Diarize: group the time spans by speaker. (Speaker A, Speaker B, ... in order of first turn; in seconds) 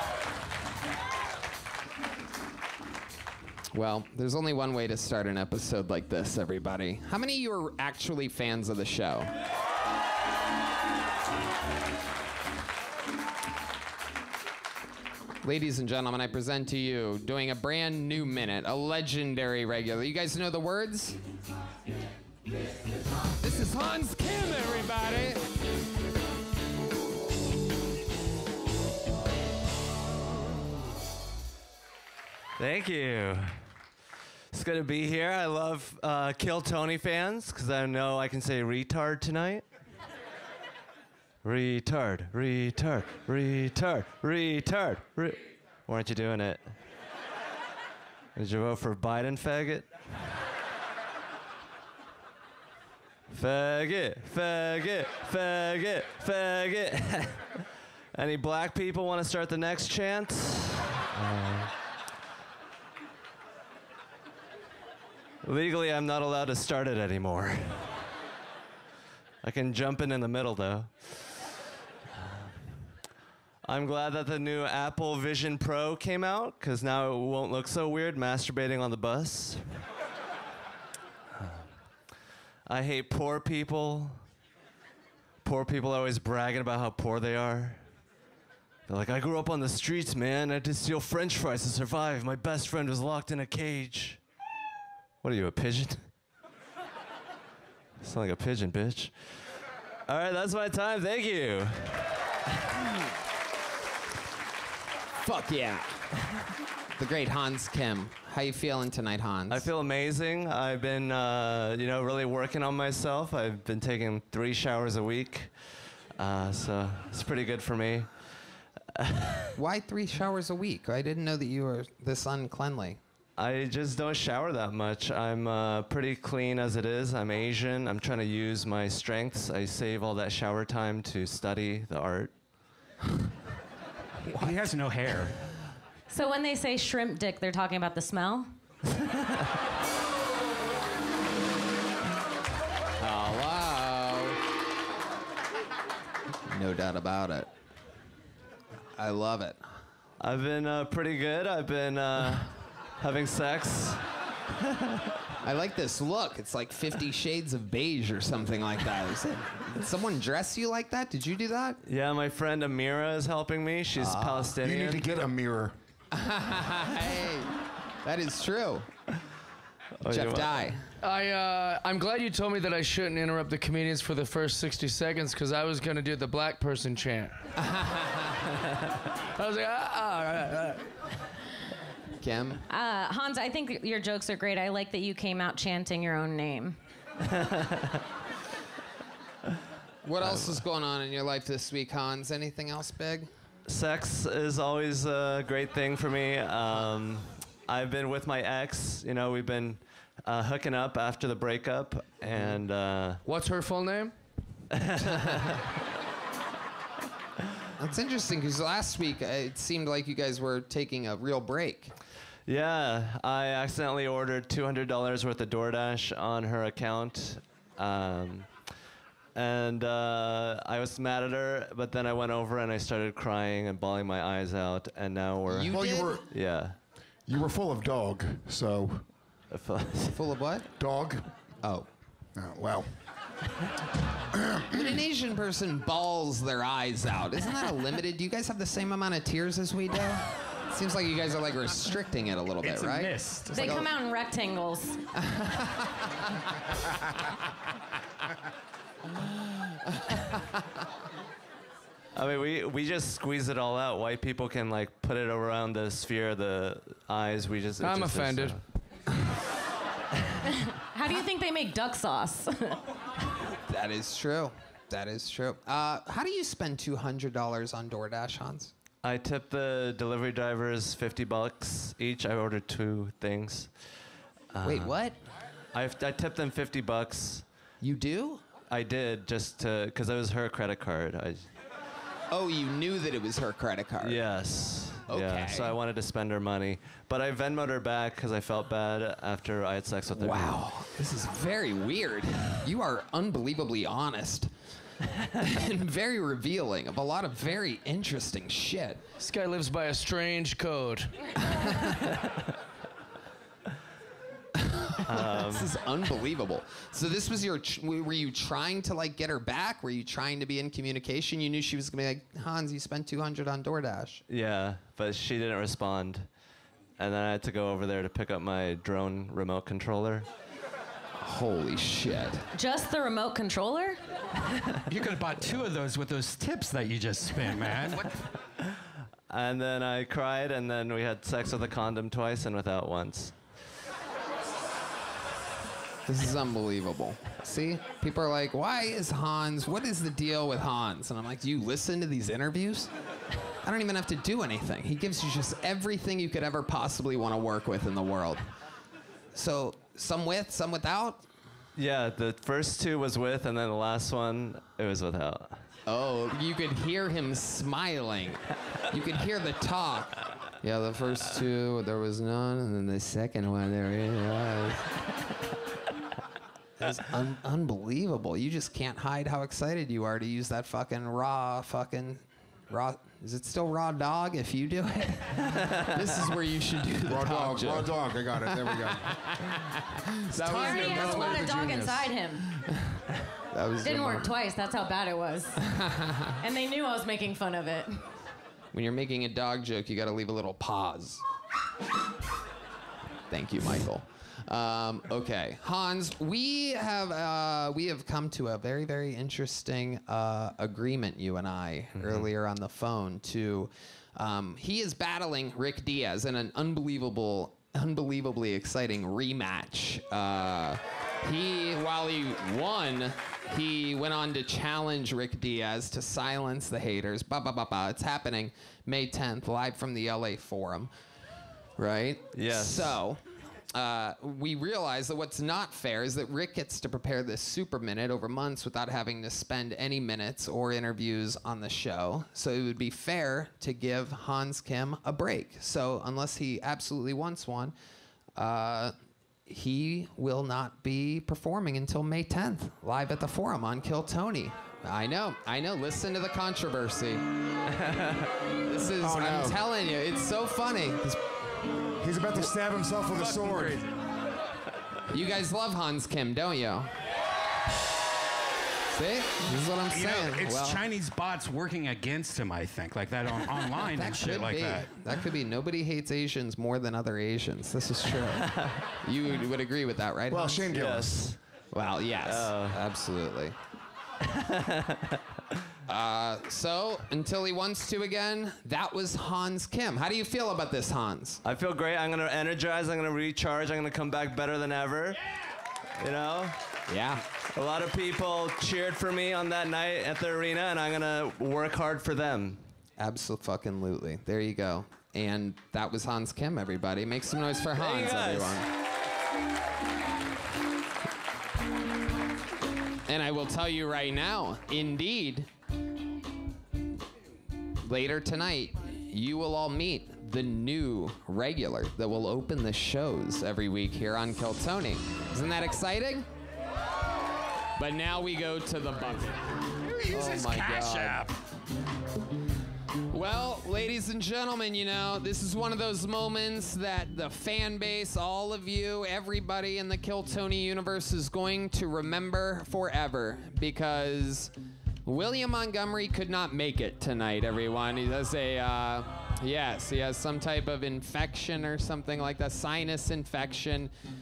Speaker A: 3.7-9.3, 15.4-21.2, 23.4-25.4, 105.2-106.1, 107.0-109.7, 119.6-123.0, 143.0-144.4, 146.5-147.5, 149.0-149.6, 155.4-161.8, 164.0-164.6, 166.2-168.9, 170.1-170.8, 177.6-178.2, 182.2-182.6, 190.0-193.3, 207.8-211.9, 225.5-226.2, 230.1-230.7, 234.7-243.9, 245.2-246.4, 250.0-250.3, 263.4-268.7, 274.6-275.1, 277.8-278.4, 282.3-284.2, 285.1-285.8, 290.2-294.5, 295.4-299.0, 301.5-301.9, 304.7-314.2, 321.2-322.5, 336.1-342.9, 343.6-348.4, 349.3-351.3, 355.9-364.9, 366.8-378.0, 378.5-382.0, 382.6-384.4, 385.7-386.4, 388.7-391.2, 393.3-420.9, 421.8-423.2, 423.7-437.8, 438.4-438.9, 439.5-447.2, 448.7-451.3, 455.1-456.9, 458.9-460.8, 463.8-468.5, 469.0-470.7, 471.7-473.6, 475.9-481.4, 486.9-487.2, 493.0-498.7, 503.1-505.5, 507.8-516.3, 517.8-519.4, 520.1-521.2, 523.1-534.5, 535.0-543.9
Speaker B: 32.6-33.6, 34.5-39.6, 41.4-46.7, 48.4-49.9, 53.3-61.7, 65.4-68.1, 69.4-71.5, 73.6-79.9, 82.7-84.2, 85.4-87.8, 88.9-94.2, 95.2-96.1, 98.0-99.3, 100.1-102.4, 109.5-115.5, 116.2-118.1, 119.0-119.5, 123.4-132.3, 138.9-139.2, 150.2-154.1, 154.6-155.0, 161.8-165.1, 170.0-170.7, 187.2-188.0, 190.2-190.6, 193.7-203.2, 204.7-205.6, 212.5-218.5, 219.3-226.8, 229.5-230.2, 252.2-258.6, 269.0-273.7, 274.5-275.0, 275.7-277.5, 278.7-281.5, 284.0-290.6, 305.1-305.7, 314.3-316.3, 317.0-320.3, 329.3-333.4, 351.8-355.6, 401.9-402.3, 422.3-423.0, 447.8-448.3, 468.4-468.8, 470.7-471.4, 472.2-472.8, 474.3-475.2, 481.4-485.2, 486.0-486.6, 487.5-492.6, 497.8-498.6
Speaker C: 134.3-135.4, 242.6-243.8, 324.9-328.2, 459.9-464.9, 519.9-521.3
Speaker D: 136.1-138.5, 182.7-186.8, 243.5-245.0, 260.5-262.8, 322.5-324.0, 380.5-382.5, 383.8-385.7, 386.4-388.0
Speaker E: 164.6-165.8, 225.7-226.2, 227.3-229.1, 230.8-231.3, 232.4-232.9, 234.3-234.9, 377.1-379.1, 449.0-449.6, 452.0-453.8, 470.3-471.2
Speaker F: 171.0-177.3, 179.3-180.8, 203.3-204.1, 257.8-258.6, 299.2-301.1, 453.1-453.8